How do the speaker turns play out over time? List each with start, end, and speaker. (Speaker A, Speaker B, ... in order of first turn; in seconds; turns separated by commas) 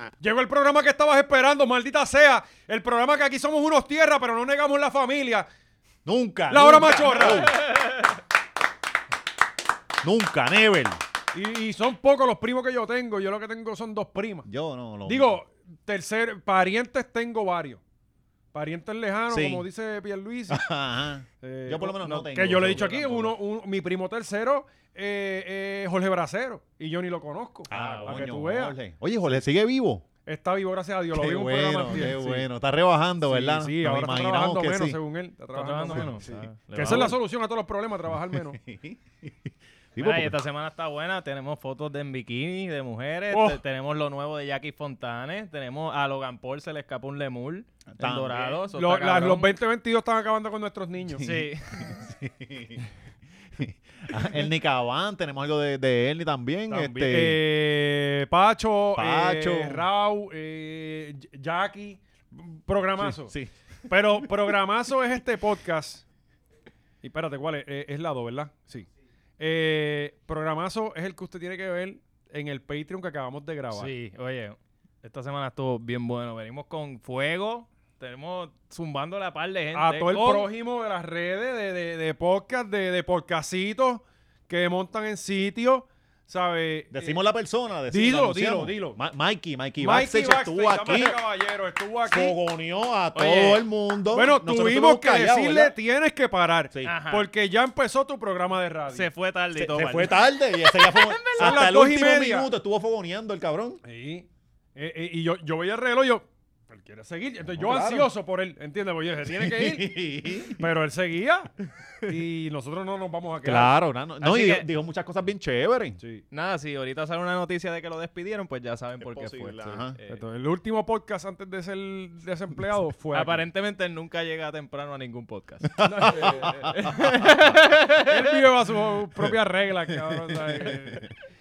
Speaker A: 0.2-5.5, Speaker B: 6.0-7.7, Speaker A: 6.5-7.6, Speaker C: 7.6-7.9, Speaker B: 10.0-11.0, Speaker A: 11.3-14.5, Speaker B: 14.4-15.4, Speaker A: 15.1-17.8, Speaker A: 18.5-20.6, Speaker B: 19.3-19.7, Speaker B: 20.5-23.4, Speaker A: 21.4-28.8, Speaker B: 27.7-30.0, Speaker C: 27.7-28.2, Speaker A: 30.2-32.5, Speaker B: 31.1-35.0, Speaker A: 33.2-38.6, Speaker C: 35.5-37.1, Speaker B: 35.9-37.1, Speaker B: 38.3-40.4, Speaker C: 40.0-49.6, Speaker A: 43.3-43.6, Speaker B: 47.9-48.6, Speaker A: 48.7-51.3, Speaker C: 51.2-52.0, Speaker B: 51.2-52.9, Speaker B: 53.5-57.4, Speaker A: 56.7-63.3, Speaker B: 58.9-59.9, Speaker B: 63.0-64.5, Speaker A: 63.9-66.0, Speaker A: 67.0-68.9, Speaker A: 69.4-73.9, Speaker C: 73.7-80.5, Speaker A: 79.7-87.2, Speaker B: 86.9-91.2, Speaker A: 87.9-89.0, Speaker A: 89.8-92.4, Speaker B: 92.1-95.8, Speaker C: 93.1-93.6, Speaker A: 94.1-99.1, Speaker B: 96.7-97.0, Speaker C: 96.8-97.3, Speaker C: 98.9-101.6, Speaker B: 99.5-103.8, Speaker A: 101.3-102.5, Speaker A: 103.8-110.0, Speaker B: 107.5-108.1, Speaker B: 109.2-110.7, Speaker A: 110.6-111.5, Speaker A: 112.0-113.7, Speaker B: 113.4-116.0, Speaker C: 114.2-114.7, Speaker A: 116.0-116.2, Speaker C: 116.3-120.2, Speaker B: 119.0-120.0, Speaker A: 120.1-123.4, Speaker C: 123.1-128.2, Speaker A: 125.8-126.6, Speaker B: 125.9-126.9, Speaker A: 128.0-131.0, Speaker B: 129.9-131.1